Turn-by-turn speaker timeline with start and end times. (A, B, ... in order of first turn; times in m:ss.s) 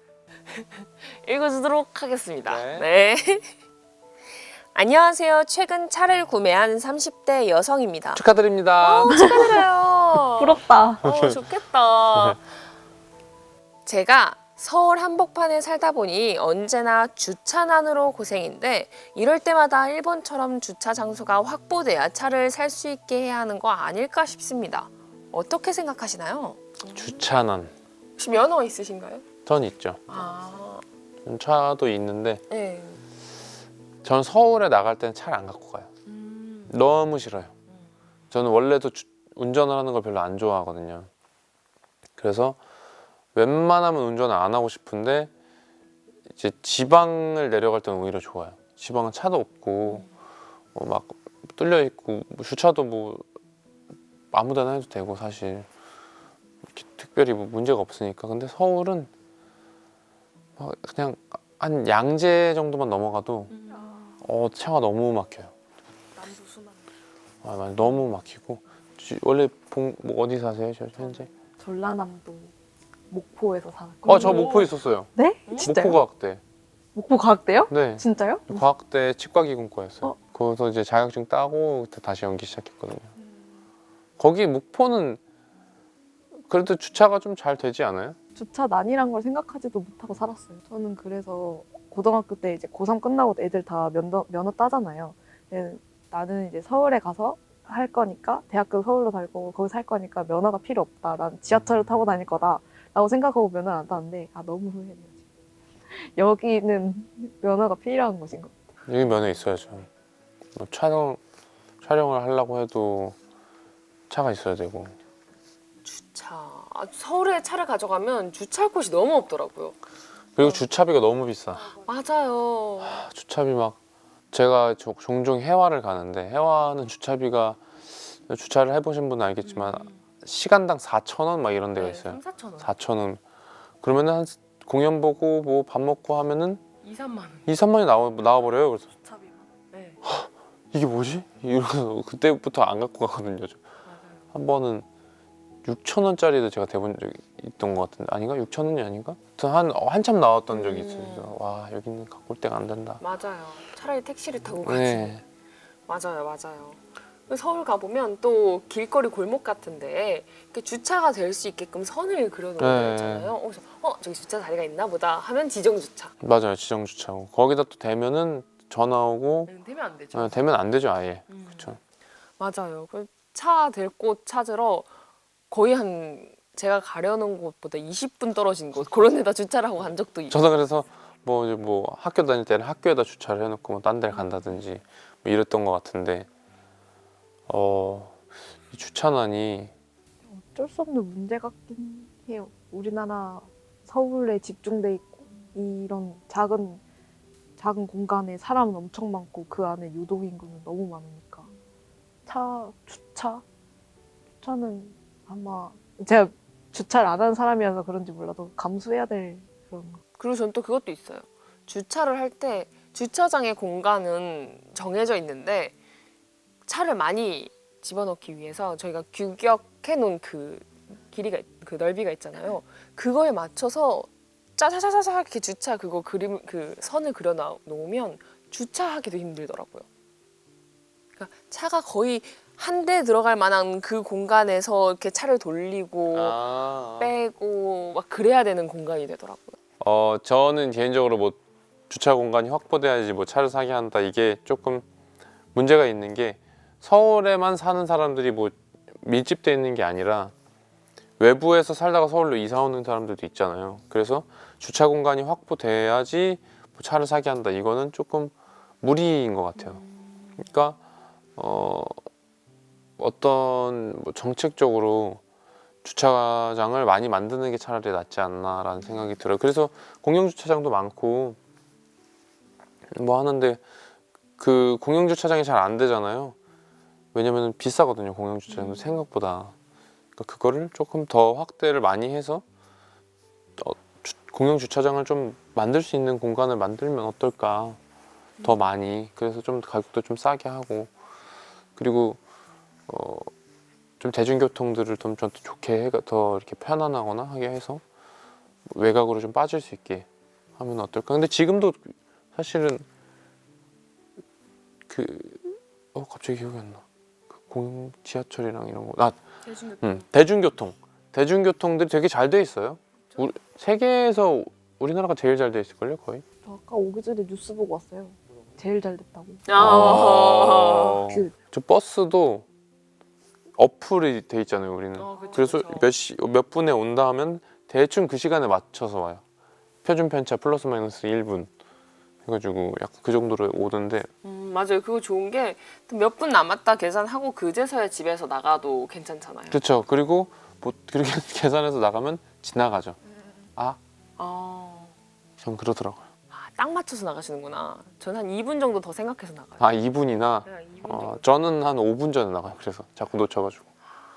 0:00.5-0:03.5 A
0:02.4-0:02.9 B
0:04.7-0:08.2 A
0:08.1-0:09.3 B
0:08.8-0:12.4 A
0:09.1-0:09.6 C
0:10.4-0:11.0 C
0:11.1-0:11.4 B
0:12.1-0:12.4 B
0:13.9-0:27.2 A
0:26.9-0:27.7 B
0:28.2-0:29.2 A
0:29.5-0:30.0 B
0:30.1-0:30.8 A
0:31.2-0:32.4 B
0:32.5-0:33.0 A
0:34.0-0:35.9 B
0:36.1-0:36.8 A
0:36.7-0:37.5 B
0:38.3-0:41.1 B
0:42.2-0:42.6 B
0:43.3-0:45.3 B
0:46.3-0:50.1 B
0:50.8-0:53.2 B
0:54.3-0:55.7 B
0:56.7-0:59.1 B
1:00.6-1:03.5 B
1:03.5-1:04.2 A
1:04.2-1:05.5 B
1:06.2-1:06.8 A
1:07.4-1:11.3 B
1:11.6-1:12.5 C
1:13.1-1:16.0 C
1:14.1-1:16.4 B
1:14.2-1:14.4 A
1:17.0-1:18.6 C
1:17.7-1:23.1 B
1:24.2-1:25.2 B
1:26.5-1:28.2 B
1:28.4-1:45.2 C
1:45.9-1:48.6 C
1:48.9-1:49.9 B
1:50.6-1:51.2 B
1:51.8-1:53.2 B
1:54.1-1:55.0 B
1:55.8-1:59.8 A
2:00.4-2:01.7 B
2:00.4-2:00.7 A
2:01.7-2:03.0 A
2:02.8-2:03.8 B
2:04.3-2:13.2 B
2:09.4-2:10.0 A
2:11.8-2:12.7 A
2:13.8-2:16.6 B
2:16.8-2:17.5 A
2:17.5-2:18.9 B
2:19.1-2:20.0 A
2:20.0-2:23.6 B
2:23.8-2:24.2 A
2:24.3-2:24.9 B
2:25.6-2:33.0 B
2:30.5-2:31.4 A
2:33.0-2:35.2 A
2:34.6-2:35.2 B
2:35.9-2:46.1 A
2:42.6-2:43.3 B
2:46.2-2:49.5 B
2:49.5-2:50.4 A
2:50.1-2:51.8 B
2:51.3-2:51.7 A
2:52.4-2:54.9 A
2:55.5-3:00.5 A
3:00.3-3:06.3 B
3:04.1-3:04.6 A
3:07.5-3:09.7 B
3:10.3-3:16.8 C
3:17.6-3:21.5 C
3:22.3-3:23.4 C
3:24.4-3:30.0 C
3:30.2-3:35.8 A
3:36.7-3:49.9 A
3:51.2-3:56.4 A
3:56.1-3:57.1 B
3:57.0-3:59.6 A
3:59.8-4:01.4 B
4:01.9-4:04.9 B
4:05.5-4:10.3 B
4:11.2-4:19.8 B
4:19.6-4:20.4 A
4:20.4-4:20.8 B
4:21.4-4:22.0 B
4:23.0-4:25.2 B
4:25.8-4:31.4 B
4:28.8-4:29.2 A
4:32.9-4:33.6 B
4:34.4-4:36.4 B
4:37.1-4:39.5 B
4:38.5-4:39.0 A
4:40.2-4:42.4 B
4:43.6-4:47.8 B
4:48.4-4:48.6 A
4:48.4-4:50.9 B
4:51.8-4:52.2 B
4:52.9-4:53.3 B
4:54.0-4:57.8 B
4:58.7-5:00.1 B
5:00.6-5:02.8 B
5:04.9-5:06.8 B
5:07.4-5:09.2 B
5:09.4-5:10.1 A
5:09.8-5:16.2 B
5:16.4-5:20.0 C
5:19.5-5:21.0 A
5:19.6-5:22.4 B
5:21.1-5:21.4 C
5:23.6-5:29.2 B
5:25.0-5:25.9 A
5:29.8-5:31.5 B
5:32.2-5:34.1 B
5:34.2-5:39.6 A
5:39.5-5:43.0 B
5:44.2-5:44.9 A
5:45.4-5:46.0 B
5:46.3-5:49.7 A
5:49.6-5:53.7 B
5:50.4-5:51.3 A